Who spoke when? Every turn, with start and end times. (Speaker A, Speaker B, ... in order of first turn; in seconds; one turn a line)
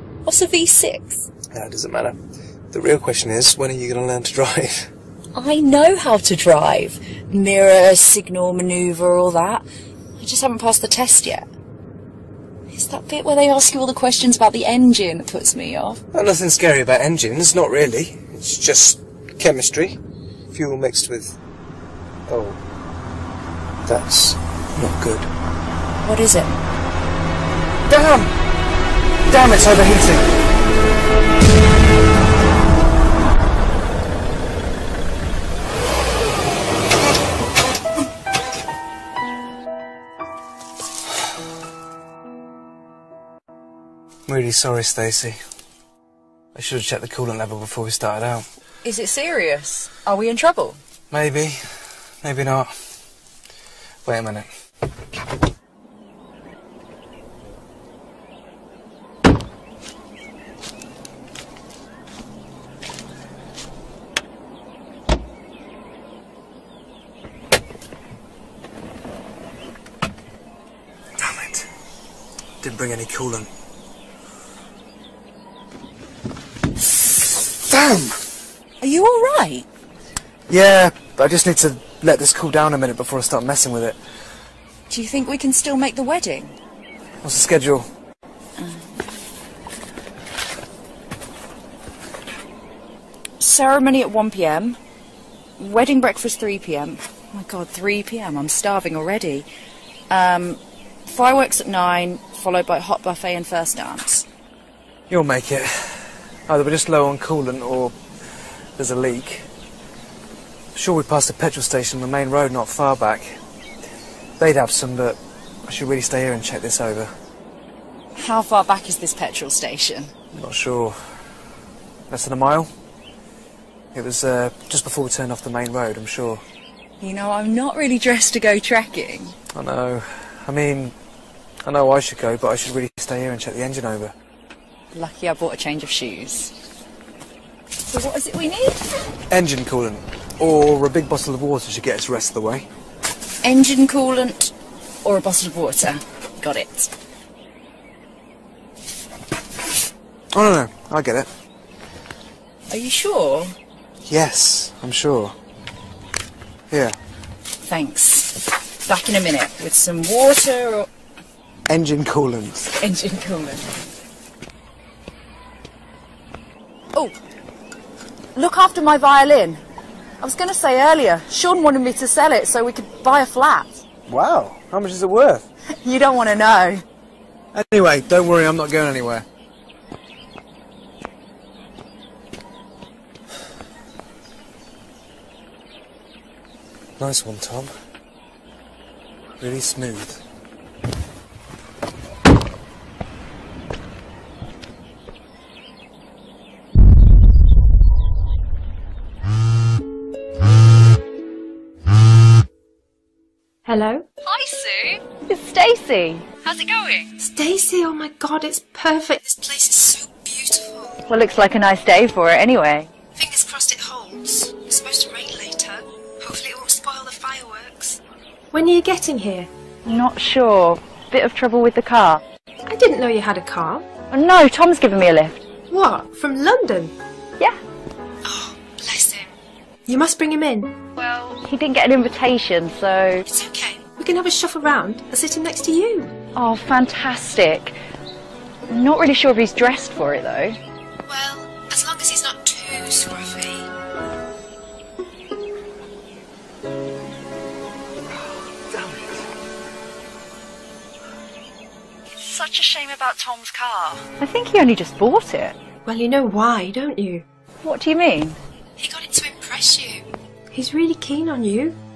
Speaker A: 0.2-1.3
Speaker B: 1.5-2.2
Speaker B: 2.7-4.9
Speaker A: 5.3-9.7
Speaker A: 10.2-11.5
Speaker A: 12.7-16.0
Speaker B: 16.1-20.0
Speaker B: 20.5-21.4
Speaker B: 22.3-22.6
Speaker B: 23.9-25.3
Speaker A: 26.0-26.6
Speaker B: 27.9-28.3
Speaker B: 29.3-30.3
Speaker B: 44.3-45.4
Speaker B: 46.5-48.5
Speaker A: 48.8-50.8
Speaker B: 51.1-51.7
Speaker B: 52.2-52.7
Speaker B: 54.0-54.5
Speaker B: 71.2-71.7
Speaker B: 72.6-73.5
Speaker B: 77.1-78.2
Speaker A: 78.8-79.7
Speaker B: 80.5-84.0
Speaker A: 84.9-86.5
Speaker B: 87.2-87.9
Speaker A: 88.6-89.0
Speaker A: 93.4-94.8
Speaker A: 95.6-99.5
Speaker A: 100.1-104.3
Speaker B: 105.1-109.5
Speaker B: 110.7-113.4
Speaker B: 114.4-117.1
Speaker A: 118.2-120.1
Speaker B: 120.3-121.0
Speaker B: 122.1-122.7
Speaker B: 123.9-126.4
Speaker A: 127.0-129.4
Speaker B: 129.6-130.9
Speaker B: 131.7-134.1
Speaker A: 134.9-136.5
Speaker A: 137.9-138.9
Speaker B: 139.3-142.7
Speaker A: 143.4-144.5
Speaker A: 145.0-146.9
Speaker B: 150.3-151.3
Speaker A: 152.7-153.6
Speaker B: 154.1-155.3
Speaker B: 156.7-157.0
Speaker A: 157.7-160.9
Speaker B: 161.7-162.7
Speaker A: 162.8-163.7
Speaker A: 168.3-169.6
Speaker A: 170.2-173.8
Speaker B: 174.1-175.5
Speaker A: 175.8-176.8
Speaker B: 177.5-179.3
Speaker B: 187.0-187.7
Speaker B: 189.4-190.2
Speaker C: 203.7-204.1
Speaker A: 204.2-207.1
Speaker C: 207.2-211.0
Speaker A: 211.1-212.9
Speaker C: 213.2-218.0
Speaker C: 218.5-219.5
Speaker A: 219.9-222.2
Speaker C: 222.7-223.9
Speaker A: 224.1-225.5
Speaker C: 225.7-226.9
Speaker C: 228.2-230.7
Speaker A: 231.0-233.3
Speaker C: 233.3-236.1
Speaker A: 236.4-237.8
Speaker A: 238.7-240.6
Speaker C: 241.1-243.7
Speaker B: 248.7-249.2
Speaker A: 252.2-255.6
Speaker C: 255.9-257.2
Speaker A: 257.6-258.4
Speaker C: 258.8-261.8